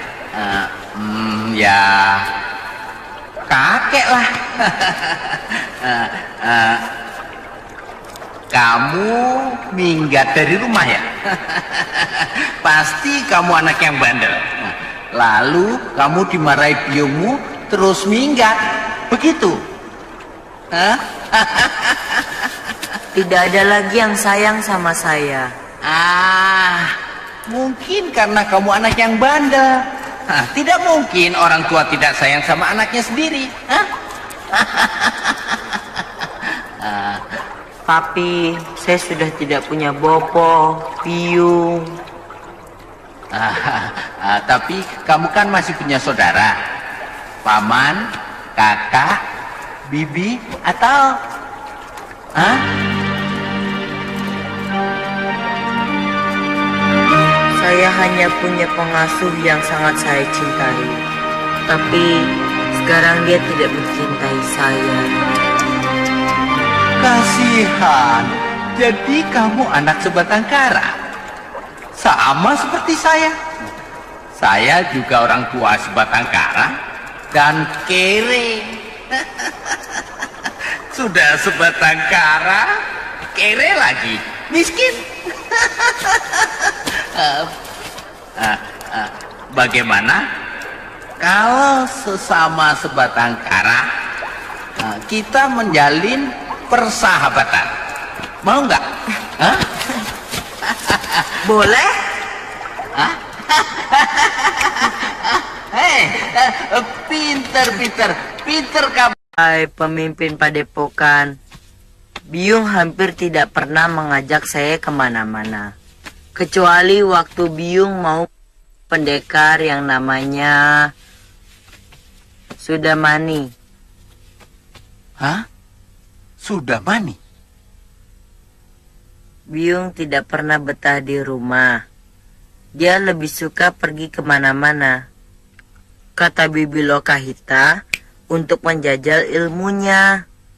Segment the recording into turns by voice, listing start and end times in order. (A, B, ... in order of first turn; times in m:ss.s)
0:00.4-0:02.2 A
0:03.5-0:06.8 A
0:08.5-0:19.6 A
0:20.7-0:22.5 A
0:23.1-0:25.5 B
0:25.9-0:26.9 A
0:27.5-0:33.9 A
0:34.5-0:35.6 A
0:36.8-0:37.2 A
0:37.9-0:41.9 B
0:43.3-0:46.6 A
0:47.4-0:48.0 A
0:48.6-0:49.2 A
0:49.9-0:51.2 A
0:52.4-0:52.6 A
0:57.6-1:01.0 B
1:01.7-1:02.2 B
1:02.8-1:05.2 B
1:07.0-1:10.9 A
1:12.0-1:13.4 A
1:14.4-1:16.7 A
1:17.3-1:20.0 A
1:20.9-1:22.7 A
1:23.4-1:27.5 A
1:28.4-1:30.2 A
1:31.2-1:33.8 A
1:34.8-1:37.7 A
1:38.4-1:38.8 A
1:39.4-1:39.7 A
1:40.7-1:41.2 A
1:41.4-1:42.0 B
1:43.0-1:49.2 A
1:49.3-1:51.4 B
1:52.3-1:55.7 B
1:56.4-1:58.3 B
1:58.9-2:00.6 B
2:02.6-2:03.5 B
2:05.2-2:05.4 A
2:06.4-2:07.2 A
2:09.5-2:11.8 B
2:12.8-2:15.0 B
2:16.2-2:17.7 B
2:18.3-2:20.2 B